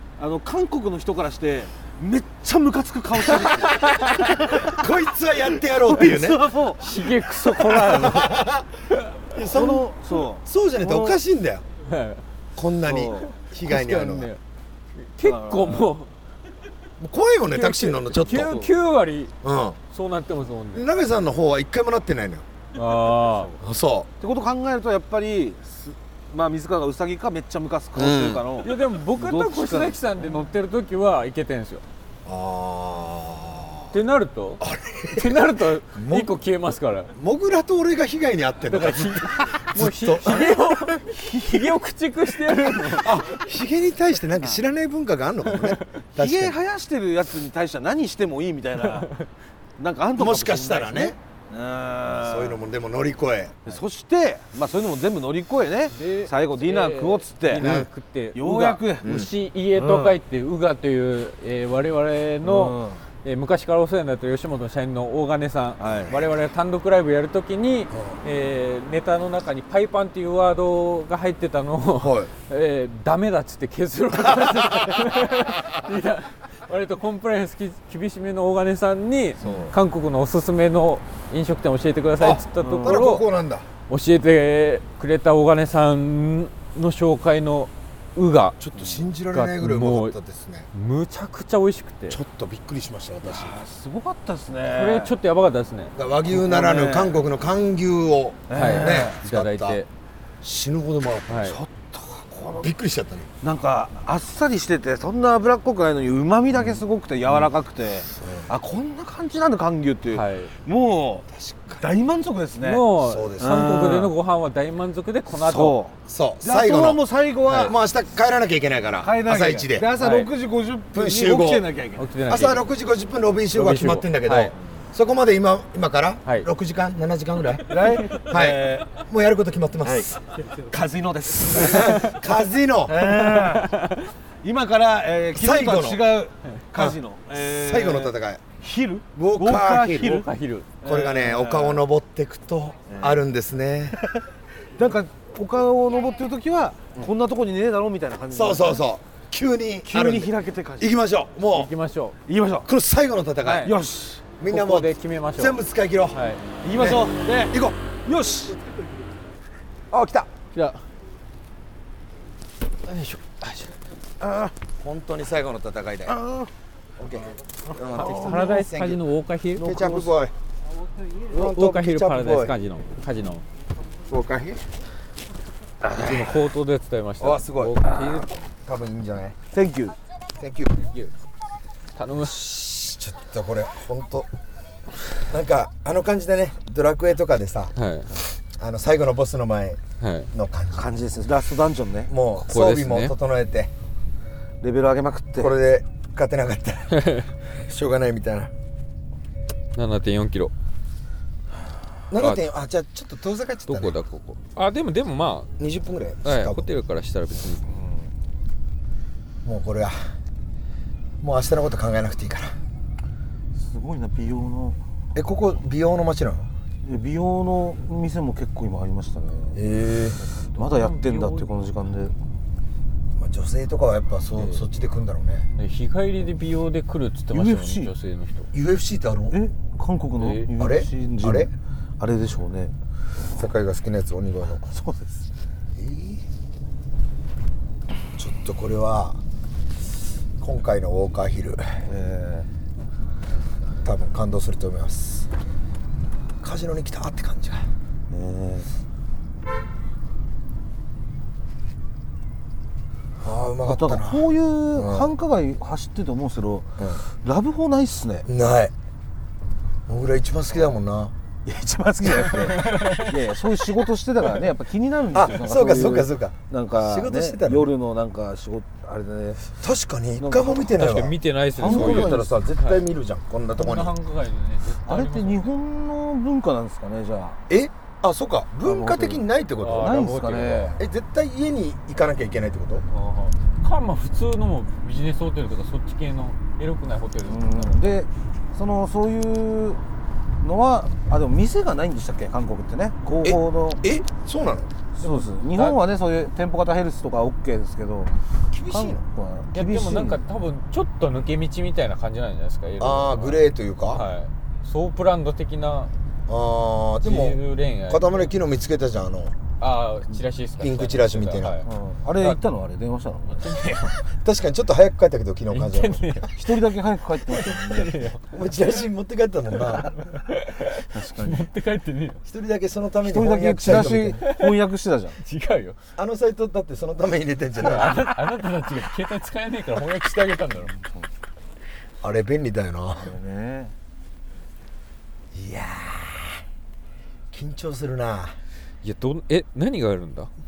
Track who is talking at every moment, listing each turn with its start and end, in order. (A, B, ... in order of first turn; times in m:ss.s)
0:00.2-0:04.7 A
0:04.6-0:06.4 B
0:05.6-0:06.8 A
0:06.8-0:08.4 C
0:07.6-0:08.7 B
0:09.3-0:11.6 B
0:09.5-0:11.2 A
0:11.8-0:12.2 C
0:12.6-0:14.3 B
0:12.8-0:13.3 A
0:13.6-0:14.4 C
0:15.0-0:16.1 C
0:15.2-0:15.9 A
0:17.0-0:18.7 B
0:17.5-0:19.3 C
0:18.2-0:18.7 A
0:19.4-0:19.8 B
0:19.9-0:20.9 C
0:20.7-0:22.4 B
0:22.8-0:23.5 C
0:22.8-0:23.6 A
0:23.6-0:24.1 B
0:24.2-0:30.0 A
0:28.0-0:28.4 B
0:28.6-0:31.8 C
0:32.2-0:33.9 B
0:33.9-0:37.1 C
0:34.6-0:36.4 B
0:37.1-0:40.9 B
0:38.7-0:43.2 C
0:43.0-0:46.5 B
0:45.5-0:45.9 C
0:46.2-0:49.2 A
0:49.8-0:52.6 A
0:50.2-0:51.2 B
0:52.1-0:53.8 B
0:53.6-0:57.7 A
0:55.9-1:23.3 C
0:57.6-0:57.9 B
0:58.3-0:59.1 A
0:59.0-0:59.3 B
0:59.7-1:00.2 A
1:02.4-1:03.0 A
1:05.8-1:06.3 A
1:07.9-1:08.2 B
1:12.0-1:12.3 B
1:19.4-1:19.7 B
1:22.2-1:23.7 B
1:22.6-1:23.1 A
1:23.9-1:28.6 C
1:28.6-1:30.7 B
1:28.8-1:29.0 A
1:29.3-1:30.2 C
1:30.7-1:32.2 C
1:32.1-1:33.6 B
1:33.2-1:35.2 A
1:34.7-1:35.9 C
1:35.9-1:39.8 B
1:36.3-1:37.2 A
1:38.5-1:39.2 A
1:38.5-1:39.9 C
1:40.4-1:41.5 B
1:41.3-1:41.6 C
1:41.3-1:42.7 A
1:42.6-1:43.3 B
1:43.4-1:51.3 A
1:48.2-1:48.5 B
1:50.1-1:50.5 C
1:51.3-1:51.9 B
1:51.8-1:54.1 A
1:52.6-1:55.8 C
1:53.0-1:53.8 B
1:55.3-1:57.8 A
1:56.1-1:59.9 B
1:59.0-2:02.1 A
1:59.9-2:00.3 C
2:00.9-2:01.7 B
2:02.0-2:02.7 C
2:02.2-2:10.1 B
2:03.5-2:04.5 C
2:06.2-2:06.5 C
2:07.7-2:08.9 A
2:10.5-2:12.1 A
2:11.5-2:13.0 B
2:12.8-2:13.7 A
2:13.5-2:14.0 C
2:14.4-2:20.3 A
2:15.3-2:16.1 B
2:16.7-2:18.4 B
2:19.2-2:20.1 B
2:20.0-2:20.7 C
2:20.8-2:21.8 A
2:20.8-2:24.0 B
2:22.9-2:23.2 A
2:23.9-2:24.2 A
2:24.8-2:28.8 A
2:28.3-2:31.7 B
2:29.8-2:31.0 A
2:31.5-2:32.2 C
2:32.2-2:32.7 A
2:32.6-2:33.7 B
2:33.4-2:33.8 C
2:33.6-2:34.3 A
2:34.4-2:36.2 B
2:34.5-2:36.4 C
2:36.6-2:38.7 A
2:36.7-2:37.8 B
2:39.9-2:40.3 B
2:40.5-2:40.8 C
2:42.8-2:43.7 C
2:44.2-2:44.5 A
2:44.8-2:46.2 B
2:46.1-2:46.5 A
2:47.0-2:49.0 B
2:47.7-2:48.5 A
2:47.9-2:49.9 C
2:49.6-2:50.3 B
2:49.6-2:50.2 A
2:51.3-2:52.5 B
2:51.3-2:53.4 C
2:54.1-2:54.7 B
2:55.8-2:56.3 A
2:56.0-2:58.3 C
2:57.2-2:57.8 B
2:58.6-2:59.4 B
2:59.5-3:00.0 A
3:00.4-3:00.9 B
3:00.8-3:01.1 C
3:01.9-3:02.4 C
3:02.2-3:04.3 B
3:05.2-3:09.8 B
3:07.7-3:08.1 C
3:10.0-3:10.3 C
3:10.3-3:11.0 B
3:10.7-3:12.1 A
3:12.1-3:13.7 B
3:12.4-3:13.1 C
3:14.6-3:15.5 A
3:15.3-3:18.5 B
3:16.9-3:17.3 C
3:19.7-3:20.5 C
3:22.1-3:24.0 B
3:22.2-3:22.4 C
3:23.7-3:25.5 C
3:25.6-3:26.7 B
3:26.2-3:27.6 C
3:27.7-3:28.1 A
3:29.4-3:30.0 B
3:31.2-3:32.6 B
3:33.5-3:34.8 A
3:35.1-3:36.5 B
3:36.8-3:39.6 A
3:39.5-3:40.2 B
3:40.5-3:42.1 A
3:40.6-3:41.5 C
3:43.2-3:45.4 B
3:44.3-3:44.7 A
3:45.5-3:48.5 C
3:47.3-3:47.9 A
3:48.5-3:49.4 B
3:49.3-3:52.7 A
3:50.2-3:50.5 C
3:50.6-3:51.5 B
3:53.3-3:54.6 B
3:54.5-3:55.2 A
3:55.8-3:56.2 B
3:58.2-3:59.2 B
4:00.4-4:01.6 B
4:01.8-4:02.5 A
4:03.8-4:05.3 B
4:06.4-4:07.7 B
4:08.1-4:08.7 A
4:13.2-4:15.1 B
4:13.6-4:18.3 A
4:18.2-4:18.7 B
4:19.9-4:21.1 B
4:21.4-4:29.6 A
4:22.3-4:23.2 C
4:25.1-4:27.7 B
4:29.6-4:34.0 B
4:30.2-4:30.9 A
4:30.8-4:32.8 C
4:31.5-4:32.4 A
4:33.5-4:35.5 C
4:34.7-4:37.4 A
4:37.5-4:40.0 B
4:38.6-4:39.2 A
4:39.6-4:40.8 C
4:39.8-4:40.8 A
4:40.8-4:42.8 B
4:42.9-4:48.0 C
4:47.2-4:49.8 A
4:50.4-4:53.8 A
4:53.2-4:54.7 B
4:55.0-5:00.2 A
4:55.0-4:55.8 C
4:58.5-4:59.0 B
4:59.5-5:05.9 C
5:02.8-5:04.1 B
5:06.3-5:09.3 B
5:07.0-5:08.3 C
5:09.6-5:11.6 C
5:10.6-5:11.6 B
5:11.6-5:13.5 A
5:13.4-5:14.0 C
5:14.1-5:16.1 B
5:15.5-5:16.3 C
5:16.3-5:18.0 A
5:17.4-5:18.2 C
5:18.2-5:20.0 B
5:19.8-5:22.2 C
5:20.9-5:21.5 A
5:22.2-5:24.2 B
5:23.0-5:25.2 A
5:24.2-5:24.5 C
5:25.2-5:25.8 C
5:26.0-5:28.1 B
5:27.6-5:30.7 C
5:30.6-5:31.1 A
5:32.0-5:33.1 B
5:33.0-5:33.7 A
5:35.3-5:36.4 B
5:37.3-5:38.4 B
5:38.8-5:40.3 C